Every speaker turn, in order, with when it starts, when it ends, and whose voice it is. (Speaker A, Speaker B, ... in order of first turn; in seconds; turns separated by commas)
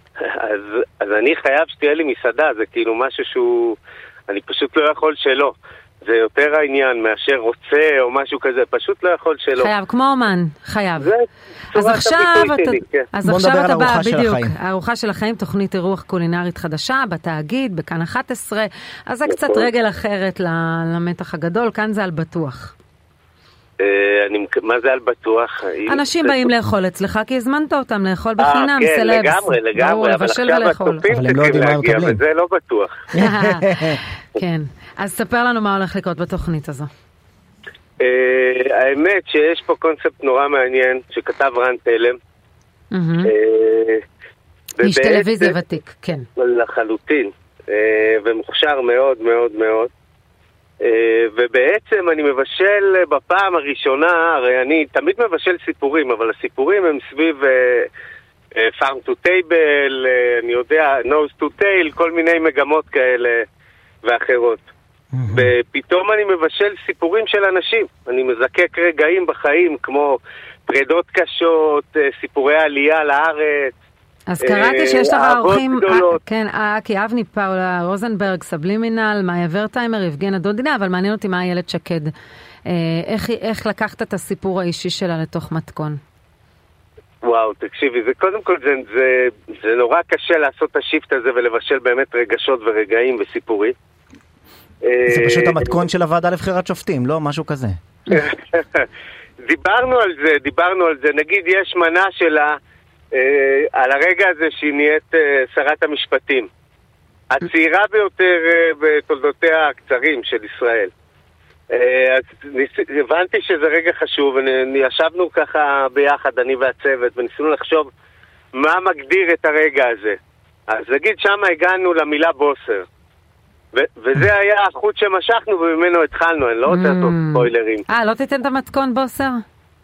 Speaker A: 0.2-9.7, Speaker B: 9.6-11.1, Speaker A: 11.0-13.1, Speaker B: 11.7-22.7, Speaker C: 13.2-14.5, Speaker A: 19.3-19.7, Speaker A: 23.8-26.5, Speaker B: 25.9-31.1, Speaker A: 28.4-33.1, Speaker C: 31.1-32.2, Speaker C: 33.1-34.0, Speaker B: 33.1-36.9, Speaker A: 38.0-42.2, Speaker B: 42.9-43.3, Speaker A: 43.2-44.0, Speaker A: 44.8-45.5, Speaker B: 44.8-46.3, Speaker A: 46.4-49.9, Speaker A: 50.8-57.9, Speaker A: 58.6-63.4, Speaker A: 64.0-64.7, Speaker C: 65.1-65.5, Speaker A: 65.3-73.8, Speaker B: 74.3-82.1, Speaker A: 74.4-76.2, Speaker B: 82.7-86.0, Speaker A: 87.2-93.8, Speaker A: 94.8-95.8, Speaker C: 95.1-97.8, Speaker A: 98.1-98.9, Speaker A: 99.4-102.6, Speaker A: 103.1-106.5, Speaker A: 107.3-110.9, Speaker A: 111.7-117.9, Speaker A: 118.5-120.2, Speaker A: 120.7-122.8, Speaker A: 123.7-127.8, Speaker B: 126.7-129.4